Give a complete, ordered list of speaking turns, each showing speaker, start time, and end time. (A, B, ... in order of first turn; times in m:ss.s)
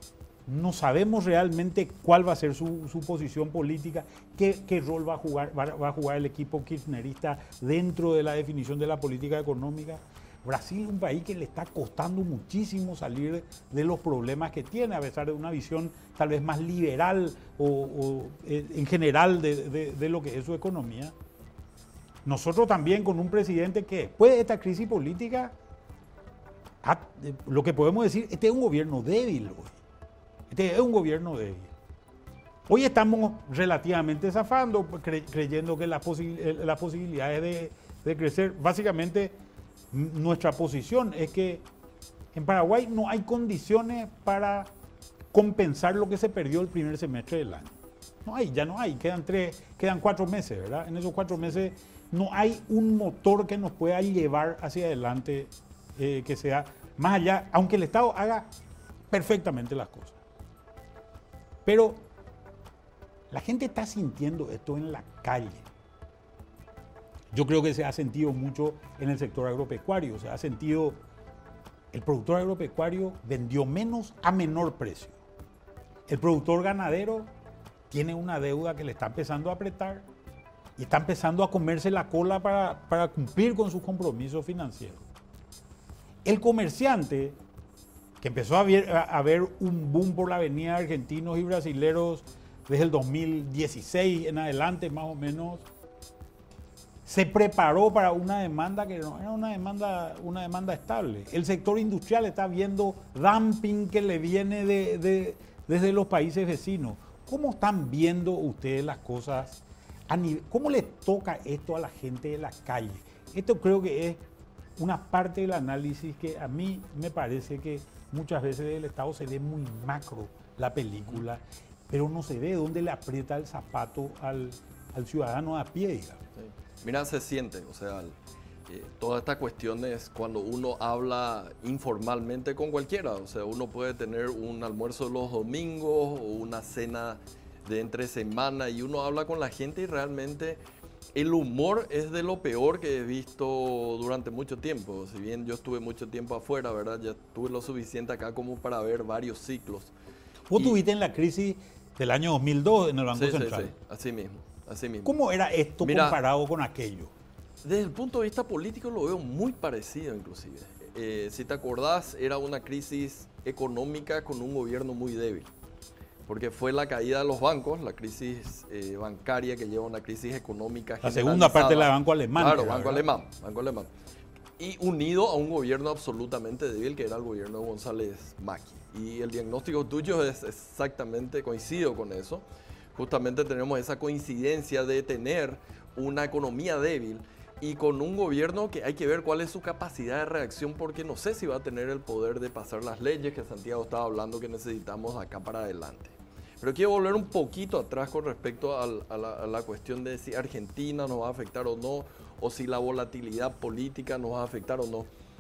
0:00.5-0:21.2 A
0:22.2-0:25.6 A
0:26.8-0:29.8 A
0:30.5-0:31.7 A
0:32.7-0:39.4 A
0:39.9-0:41.6 A
0:42.3-0:44.7 A
0:45.3-0:58.5 A
0:59.1-1:00.2 A
1:01.6-1:02.0 A
1:03.3-1:05.7 A
1:07.3-1:11.0 A
1:11.9-1:15.2 A
1:16.1-1:17.3 A
1:17.9-1:20.1 A
1:20.8-1:25.0 A
1:26.2-1:27.4 A
1:28.2-1:35.7 A
1:37.1-1:54.2 A
1:54.8-2:06.2 A
2:06.4-2:20.6 B
2:21.2-2:29.9 B
2:30.5-2:33.7 A
2:33.1-2:35.2 B
2:35.0-2:37.1 A
2:35.8-2:36.2 B
2:37.6-2:45.5 B
2:46.3-2:53.9 B
2:51.0-2:53.0 A
2:54.6-3:02.4 B
3:03.0-3:25.1 B